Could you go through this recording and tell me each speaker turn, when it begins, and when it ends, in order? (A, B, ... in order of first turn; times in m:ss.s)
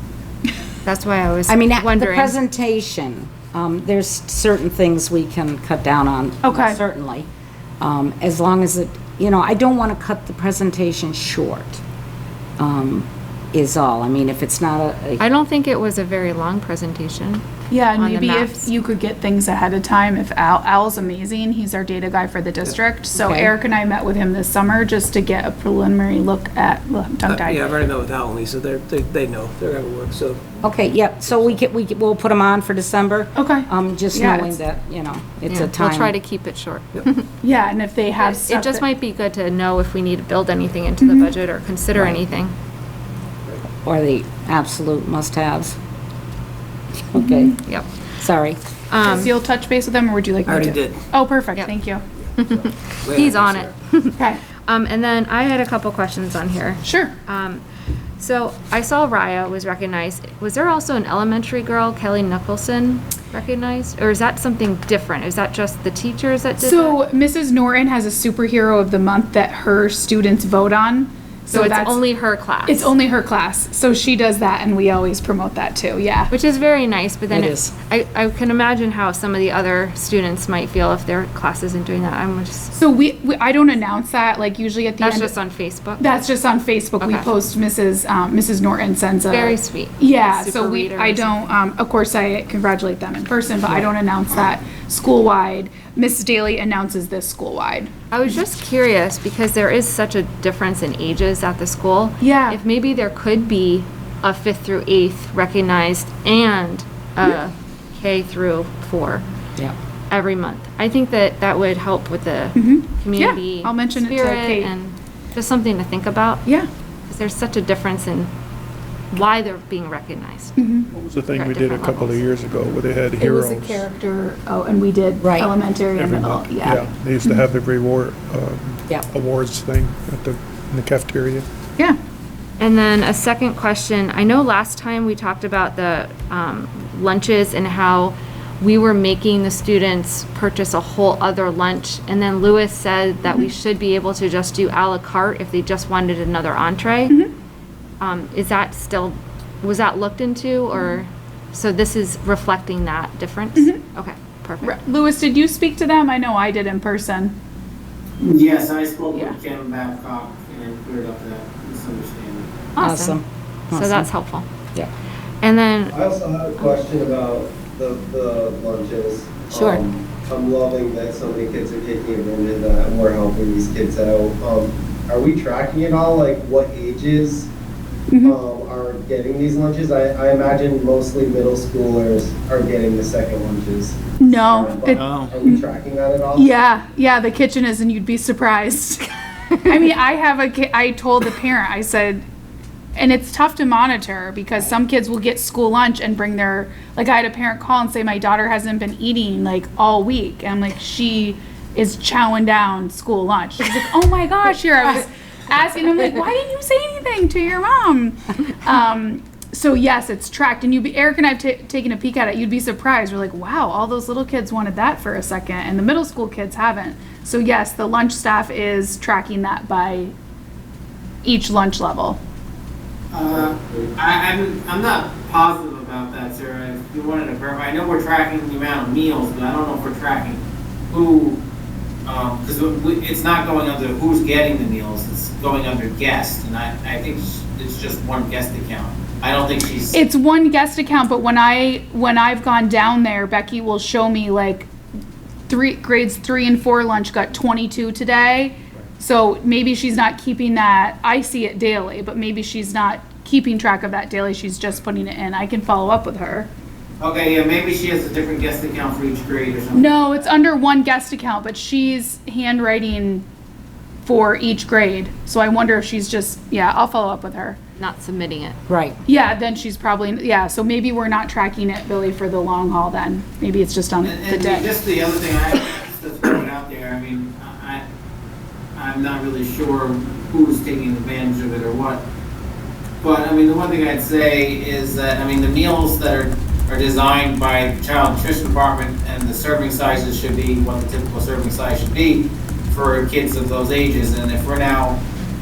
0:00.8-0:02.4 A
0:01.5-0:07.3 B
0:06.4-0:06.8 C
0:07.8-0:11.8 B
0:12.6-0:15.2 B
0:15.2-0:18.7 A
0:17.7-0:27.7 C
0:23.1-0:23.5 B
0:27.3-0:30.4 D
0:30.6-0:36.1 B
0:33.3-0:34.6 C
0:35.5-0:37.3 A
0:37.4-0:38.8 C
0:38.2-0:42.5 A
0:41.0-0:41.3 C
0:43.8-0:45.8 B
0:47.1-0:47.6 B
0:47.2-0:47.6 C
0:48.2-0:48.6 B
0:48.9-0:49.3 A
0:49.0-0:52.0 C
0:52.4-0:57.6 A
0:53.1-0:53.3 D
0:54.2-0:54.4 C
0:56.8-0:57.1 C
0:58.2-1:07.0 A
1:06.6-1:12.0 C
1:11.5-1:12.9 A
1:12.6-1:16.3 C
1:16.3-1:22.7 A
1:17.3-1:17.7 B
1:22.7-1:25.3 C
1:25.0-1:26.3 A
1:26.0-1:37.9 C
1:27.0-1:27.2 A
1:29.3-1:31.5 A
1:38.1-1:49.2 A
1:42.2-1:42.6 C
1:50.1-1:56.4 A
1:52.5-1:54.7 C
1:57.1-1:58.3 A
1:59.1-2:00.6 A
2:00.6-2:00.9 C
2:00.9-2:03.8 E
2:01.3-2:02.3 A
2:03.2-2:07.5 C
2:05.2-2:05.5 B
2:05.9-2:11.4 E
2:12.6-2:27.2 A
2:28.0-2:34.8 A
2:33.6-2:33.8 C
2:34.6-2:37.3 C
2:38.2-2:42.6 F
2:39.1-2:39.4 C
2:42.8-2:43.2 A
2:42.8-2:44.1 B
2:43.7-2:44.4 A
2:45.4-2:46.0 A
2:45.9-2:57.5 G
2:58.1-2:58.4 C
2:58.2-3:06.5 G
3:04.2-3:05.6 C
3:04.9-3:05.3 F
3:06.3-3:09.0 C
3:09.6-3:12.2 C
3:12.9-3:40.1 C
3:41.2-3:42.2 C
3:43.1-3:51.4 F
3:52.0-4:00.0 F
3:59.9-4:04.7 C
4:05.5-4:16.5 C
4:17.0-4:20.2 F
4:19.7-4:23.2 C
4:24.0-4:27.6 C
4:27.8-4:28.6 A
4:28.7-4:29.0 B
4:29.0-4:34.7 C
4:34.0-4:37.8 F
4:38.8-4:42.0 F
4:43.0-4:55.0 F